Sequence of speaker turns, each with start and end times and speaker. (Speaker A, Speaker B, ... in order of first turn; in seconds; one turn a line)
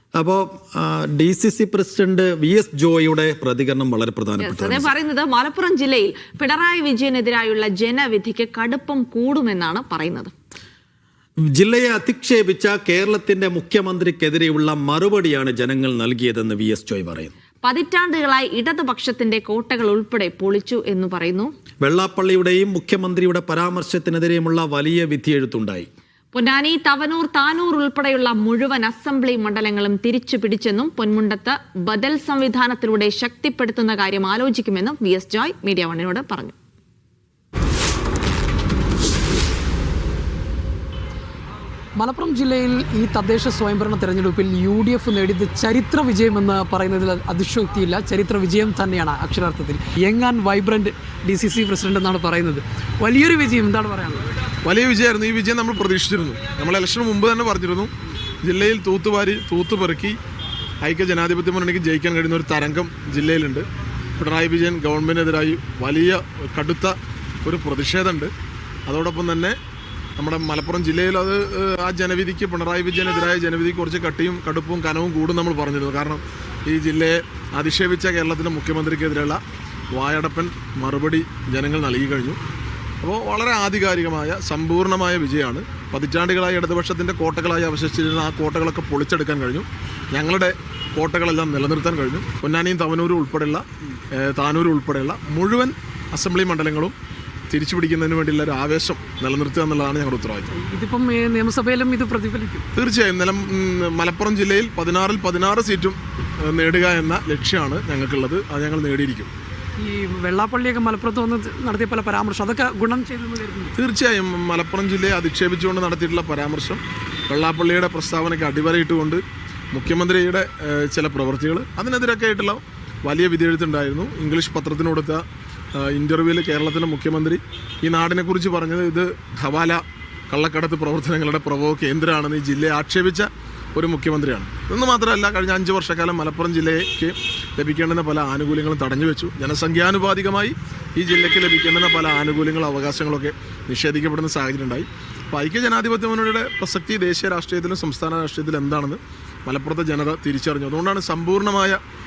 Speaker A: 0.2-4.9
Speaker B: 4.4-10.3
Speaker A: 11.5-17.3
Speaker B: 17.6-21.5
Speaker A: 21.8-25.9
Speaker B: 26.3-36.5
Speaker C: 42.0-54.3
Speaker D: 54.6-57.9
Speaker D: 58.4-60.2
Speaker D: 60.8-63.7
Speaker D: 64.2-68.3
Speaker D: 68.9-69.6
Speaker D: 70.2-79.4
Speaker D: 79.9-82.4
Speaker D: 83.0-97.0
Speaker D: 97.5-100.5
Speaker C: 100.5-102.7
Speaker D: 102.8-109.3
Speaker C: 109.8-113.7
Speaker D: 113.8-119.2
Speaker D: 119.7-125.2
Speaker D: 125.7-151.8